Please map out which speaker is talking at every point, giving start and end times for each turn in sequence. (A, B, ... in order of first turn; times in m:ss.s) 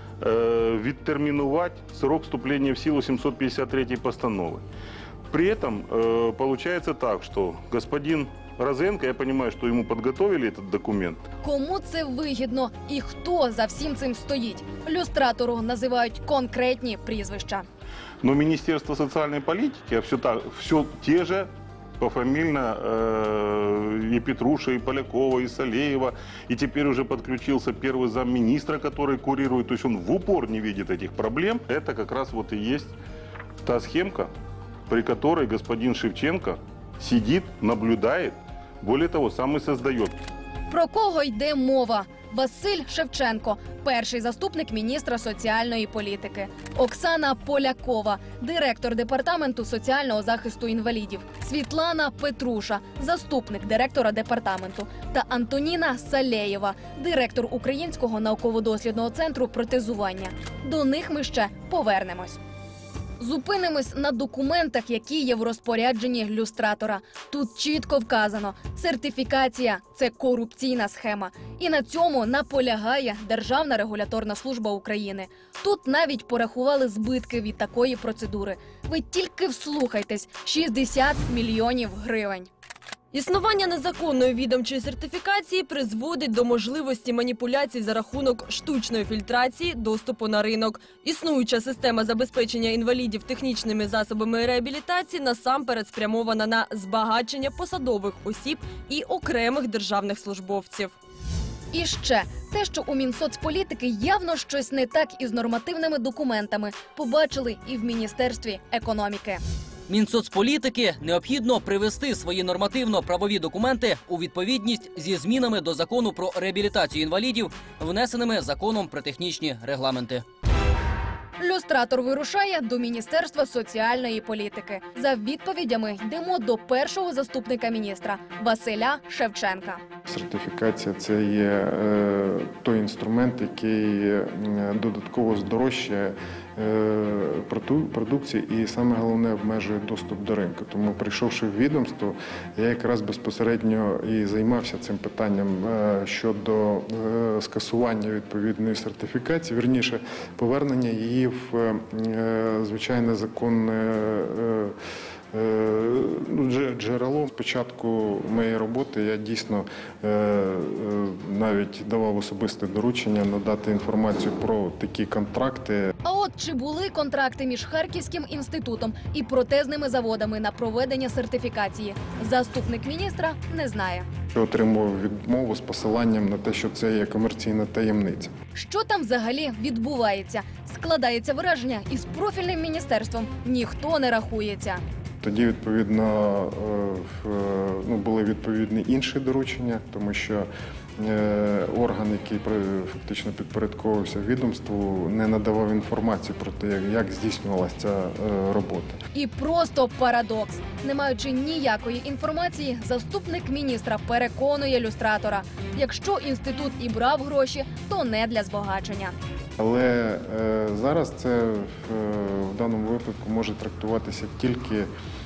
0:00.2-0:04.6 A
0:05.3-0:11.2 A
0:11.4-0:17.7 B
0:18.2-0:32.9 A
0:33.6-0:34.3 A
0:34.9-0:40.2 A
0:40.7-1:02.4 B
1:03.2-1:22.5 B
1:23.1-1:40.9 C
1:41.7-1:49.4 B
1:49.9-2:00.2 D
2:01.4-2:09.8 B
2:10.1-2:34.7 E
2:35.3-2:45.9 E
2:46.0-2:54.1 B
2:54.3-2:58.3 E
2:58.5-3:04.8 B
3:05.2-3:19.0 E
3:19.1-3:29.1 B
3:29.6-3:34.9 E